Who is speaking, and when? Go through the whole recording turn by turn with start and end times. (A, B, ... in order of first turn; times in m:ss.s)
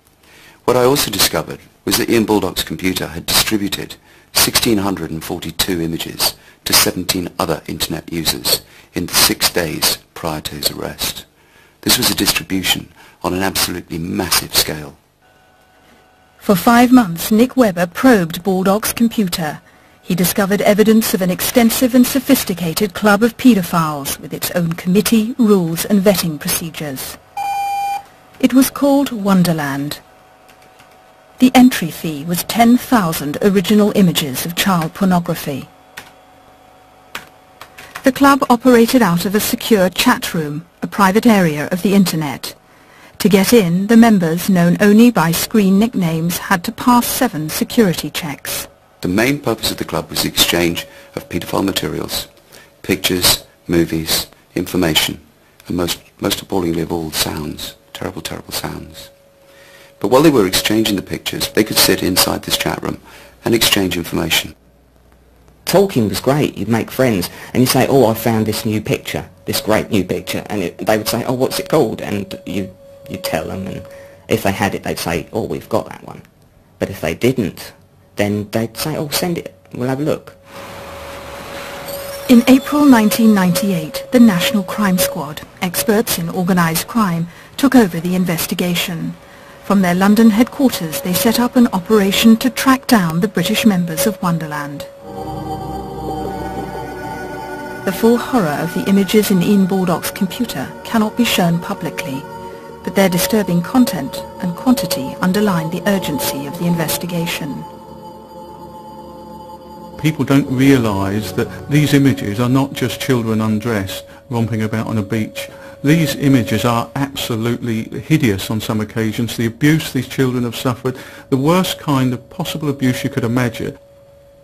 0:00.6-0:11.2 A
0:11.8-0:15.0 A
0:16.4-0:27.2 B
0:28.4-0:30.0 B
0:31.4-0:35.7 B
0:38.0-0:42.5 B
0:43.2-0:48.7 B
0:49.0-0:52.3 A
0:52.8-0:59.1 A
1:00.0-1:04.5 A
1:05.6-1:16.2 C
1:16.8-1:20.4 C
1:22.3-1:34.9 B
1:37.8-1:42.2 B
1:42.8-1:47.7 B
1:50.0-2:03.8 D